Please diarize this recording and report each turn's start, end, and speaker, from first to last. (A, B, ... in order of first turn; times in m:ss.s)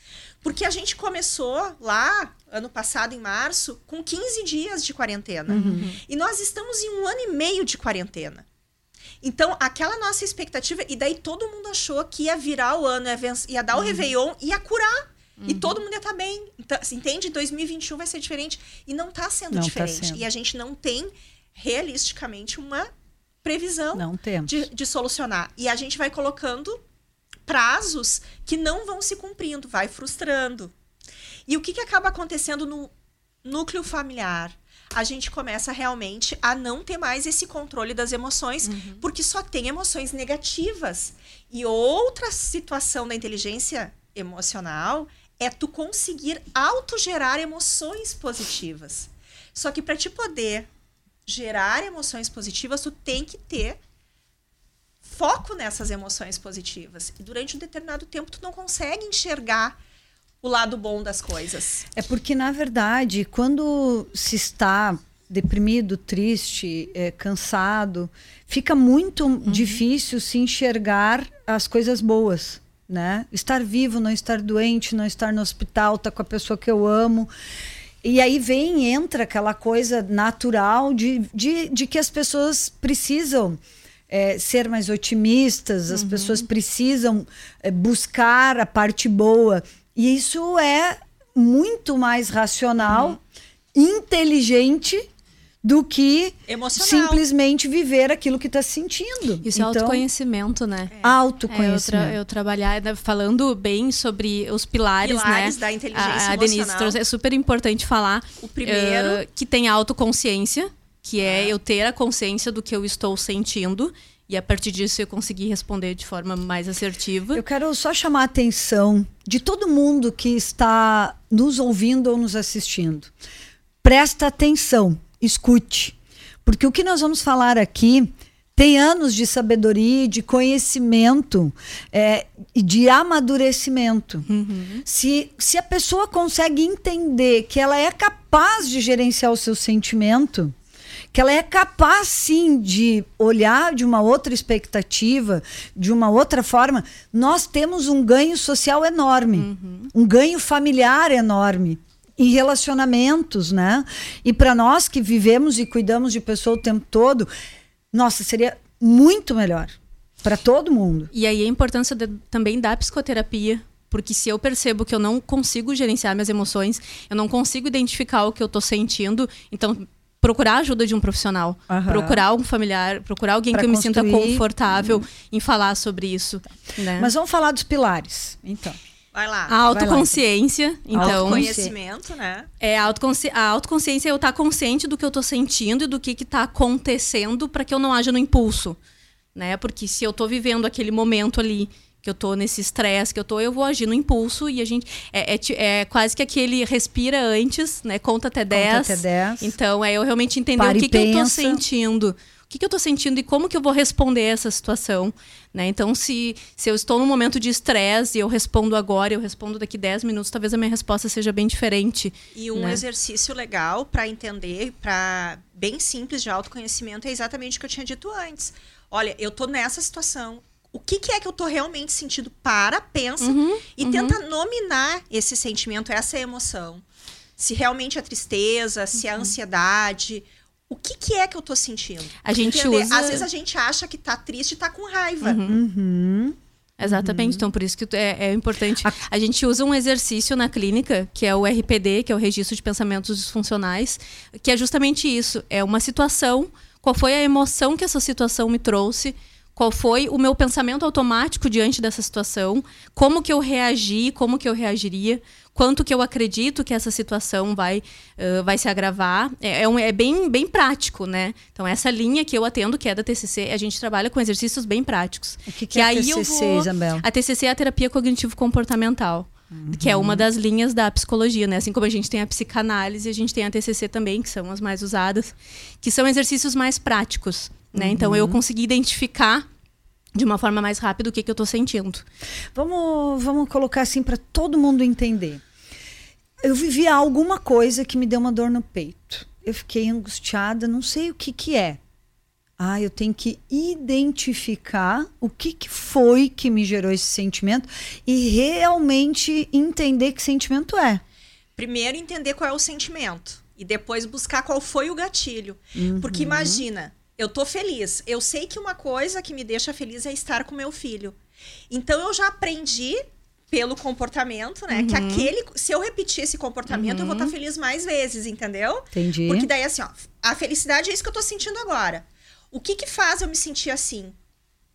0:00.4-0:08.4 A
0:05.5-0:05.8 B
0:05.6-0:06.0 C
0:09.2-0:22.9 A
0:15.4-0:15.7 C
0:19.5-0:20.2 B
0:23.4-0:26.8 A
0:23.9-0:24.6 B
0:27.4-0:30.7 A
0:31.5-0:32.9 A
0:33.4-0:50.7 A
0:38.6-0:39.0 C
0:51.2-0:53.8 A
0:55.0-0:59.8 A
1:00.4-1:01.9 A
1:01.9-1:17.3 B
1:09.4-1:09.8 C
1:18.0-1:33.2 B
1:25.9-1:26.4 C
1:32.8-1:33.1 C
1:33.7-1:35.1 B
1:35.6-1:40.0 B
1:36.5-1:37.2 A
1:39.4-1:40.9 C
1:40.9-1:41.2 A
1:41.0-1:42.2 B
1:41.5-1:57.4 C
1:45.0-1:47.0 A
1:48.4-1:49.2 A
1:51.2-1:51.5 A
1:57.3-2:03.1 B
2:03.8-2:14.3 B
2:14.3-2:14.8 C
2:14.8-2:20.5 B
2:21.1-2:37.3 B
2:29.3-2:29.9 C
2:37.9-2:41.1 B
2:41.1-2:57.1 C
2:51.7-2:52.2 B
2:53.5-2:55.0 B
2:57.0-2:58.8 B
2:59.1-2:59.6 A
2:59.5-3:01.5 C
2:59.7-3:00.2 B
3:00.9-3:01.7 B
3:01.0-3:02.5 A
3:02.6-3:08.8 C
3:09.3-3:32.8 C
3:18.5-3:19.5 B
3:20.6-3:21.6 B
3:32.3-3:46.8 A
3:43.2-3:44.2 C
3:47.4-3:55.4 A
3:52.2-3:53.2 C
3:55.2-3:55.6 C
3:55.5-3:57.5 B
3:56.8-4:39.4 C
4:25.5-4:27.0 B
4:29.5-4:30.2 B
4:37.7-4:38.4 B
4:40.1-4:42.0 C
4:42.5-4:45.4 B
4:46.4-4:51.8 B
4:52.6-5:01.0 B
5:01.6-5:11.2 A
5:05.8-5:06.6 B
5:11.7-5:24.1 A
5:14.7-5:15.3 C
5:16.7-5:17.3 C
5:18.9-5:19.5 B